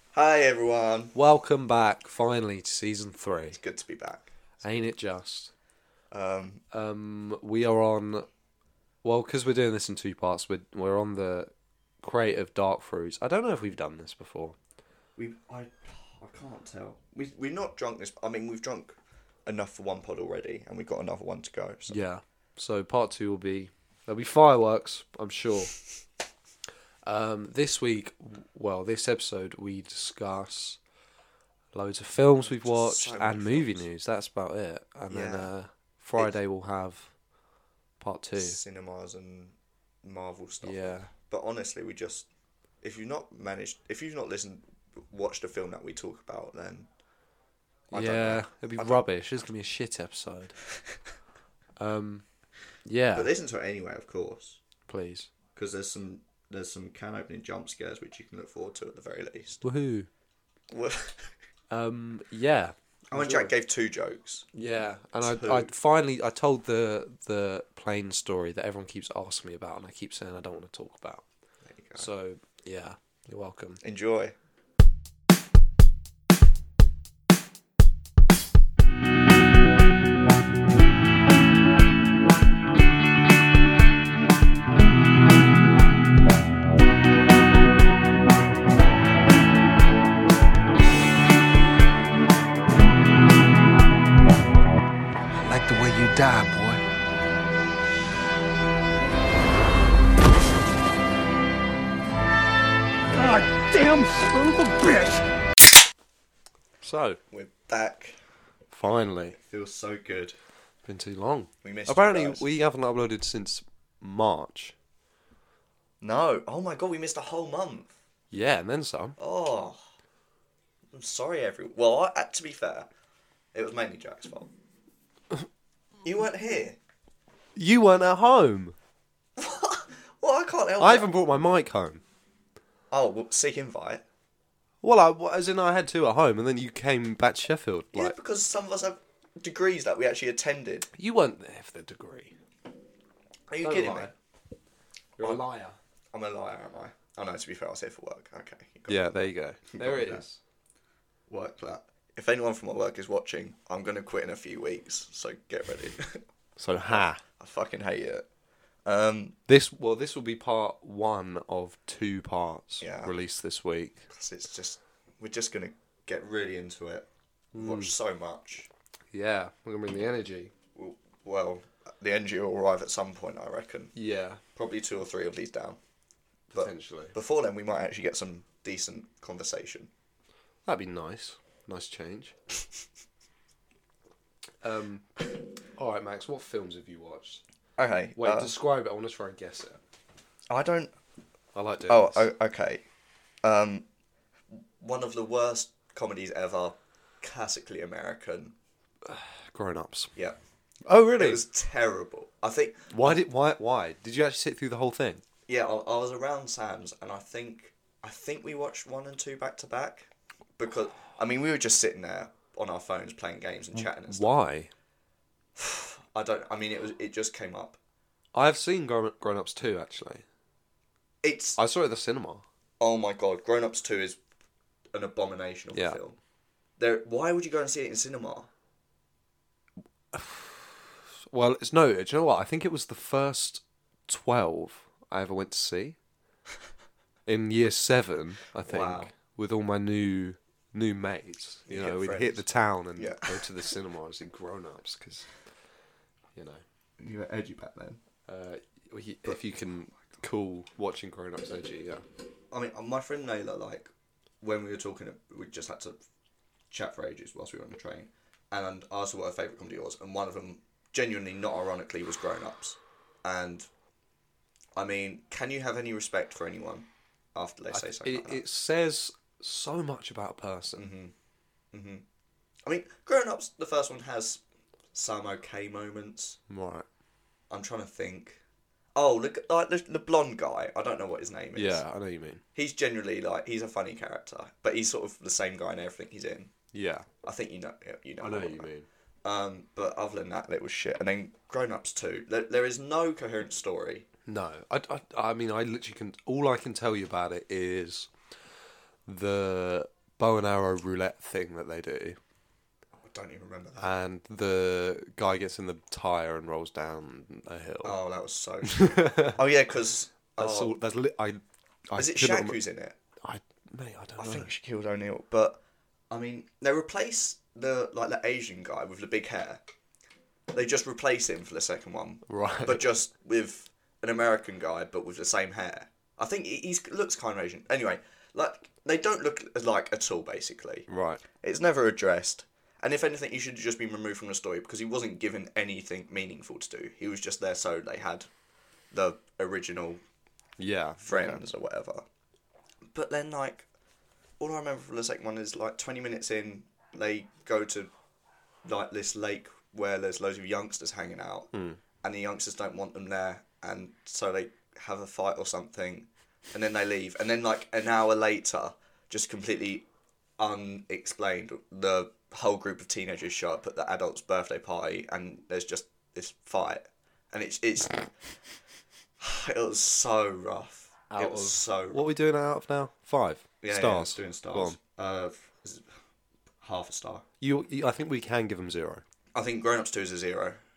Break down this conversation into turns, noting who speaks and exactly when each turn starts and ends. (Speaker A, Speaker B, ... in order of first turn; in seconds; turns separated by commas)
Speaker A: 0.1-1.1, Speaker B: 1.1-3.6, Speaker A: 3.5-4.3, Speaker B: 4.6-5.5, Speaker A: 6.1-6.6, Speaker B: 6.7-8.3, Speaker B: 9.0-11.5, Speaker B: 12.0-14.6, Speaker A: 15.2-22.0, Speaker B: 21.9-25.8, Speaker B: 27.0-30.8, Speaker B: 31.7-37.1, Speaker A: 32.4-33.9, Speaker A: 35.1-35.5, Speaker B: 38.0-38.6, Speaker A: 38.4-42.3, Speaker B: 40.6-41.1, Speaker A: 42.8-46.9, Speaker A: 47.9-49.0, Speaker B: 47.9-50.6, Speaker B: 51.8-52.2, Speaker B: 52.8-53.3, Speaker A: 53.1-54.6, Speaker B: 54.9-55.3, Speaker A: 55.6-59.6, Speaker B: 59.6-60.1, Speaker A: 60.7-61.4, Speaker B: 61.7-63.5, Speaker A: 63.1-64.5, Speaker B: 64.5-71.2, Speaker A: 65.2-65.7, Speaker A: 71.7-72.1, Speaker B: 72.0-73.8, Speaker A: 73.8-74.3, Speaker C: 95.4-96.8, Speaker C: 103.1-105.3, Speaker B: 106.8-107.2, Speaker A: 107.3-108.2, Speaker B: 108.7-109.4, Speaker A: 109.4-110.4, Speaker B: 110.8-114.8, Speaker A: 111.6-112.5, Speaker A: 116.0-118.0, Speaker B: 118.3-119.2, Speaker A: 119.2-119.8, Speaker A: 120.9-122.9, Speaker A: 123.5-124.5, Speaker A: 126.0-126.8, Speaker B: 127.6-128.8, Speaker A: 129.4-131.1, Speaker B: 130.8-132.0, Speaker A: 132.9-134.0, Speaker B: 134.8-138.2, Speaker A: 137.9-140.9, Speaker B: 140.9-142.4, Speaker A: 143.5-144.1, Speaker B: 143.6-144.1, Speaker B: 145.2-145.8, Speaker A: 146.1-149.2, Speaker B: 148.9-150.4, Speaker A: 149.7-150.2, Speaker A: 151.3-156.3, Speaker B: 156.6-157.2, Speaker A: 156.9-158.3, Speaker A: 158.8-159.4, Speaker B: 159.5-164.1, Speaker A: 162.8-163.1, Speaker A: 164.1-168.7, Speaker B: 167.5-168.0, Speaker B: 169.1-170.5, Speaker A: 170.8-173.9, Speaker B: 173.9-174.4, Speaker A: 174.6-175.8, Speaker B: 176.5-177.2, Speaker A: 176.5-179.9, Speaker B: 180.7-182.3, Speaker B: 184.6-185.2, Speaker B: 185.8-187.4, Speaker A: 187.8-188.5, Speaker B: 188.2-189.8, Speaker A: 190.5-190.9, Speaker B: 191.6-192.3, Speaker A: 191.9-192.8, Speaker A: 193.4-193.9, Speaker A: 194.5-198.6, Speaker B: 199.1-200.1, Speaker B: 200.9-201.4, Speaker A: 201.2-202.9, Speaker B: 202.9-205.2, Speaker A: 205.5-214.3, Speaker B: 213.8-214.7, Speaker A: 215.6-217.8, Speaker B: 218.3-220.2, Speaker A: 221.2-221.6, Speaker B: 221.6-222.4, Speaker A: 222.8-224.2, Speaker A: 224.9-226.2, Speaker B: 225.7-226.0, Speaker A: 226.8-228.5, Speaker B: 230.1-236.0, Speaker B: 237.3-245.3, Speaker A: 238.7-239.1, Speaker A: 241.7-242.4, Speaker A: 243.0-243.5, Speaker B: 246.4-246.6, Speaker A: 247.0-248.0, Speaker B: 248.3-252.1, Speaker A: 252.5-253.9, Speaker A: 254.4-256.0, Speaker A: 256.7-263.7, Speaker A: 264.8-268.4, Speaker B: 267.7-270.9, Speaker A: 270.8-271.1, Speaker A: 271.7-272.1, Speaker A: 272.7-274.4, Speaker A: 274.9-276.4, Speaker B: 276.5-276.9, Speaker A: 277.5-278.4, Speaker A: 278.9-281.8, Speaker B: 281.6-282.4, Speaker A: 282.6-286.5, Speaker B: 286.7-287.1, Speaker A: 287.2-288.7, Speaker B: 288.2-288.9, Speaker A: 289.2-294.1, Speaker B: 294.3-298.1, Speaker B: 299.1-302.2, Speaker A: 303.0-303.9, Speaker B: 303.8-308.0, Speaker A: 307.8-310.7, Speaker B: 308.6-309.4, Speaker B: 310.4-312.6, Speaker A: 312.0-313.0, Speaker B: 313.2-314.5, Speaker A: 314.2-319.6, Speaker A: 320.5-338.3, Speaker B: 322.3-322.9, Speaker B: 330.9-331.2, Speaker A: 338.9-340.0, Speaker B: 340.6-341.4, Speaker A: 341.0-342.0, Speaker A: 342.9-343.7, Speaker A: 344.4-347.9, Speaker A: 348.6-351.5, Speaker B: 351.5-351.8, Speaker A: 352.0-359.9, Speaker A: 360.4-368.3, Speaker A: 369.2-372.1, Speaker B: 371.1-374.8, Speaker A: 373.6-375.9, Speaker A: 376.6-377.2, Speaker B: 377.4-379.0, Speaker A: 379.3-380.6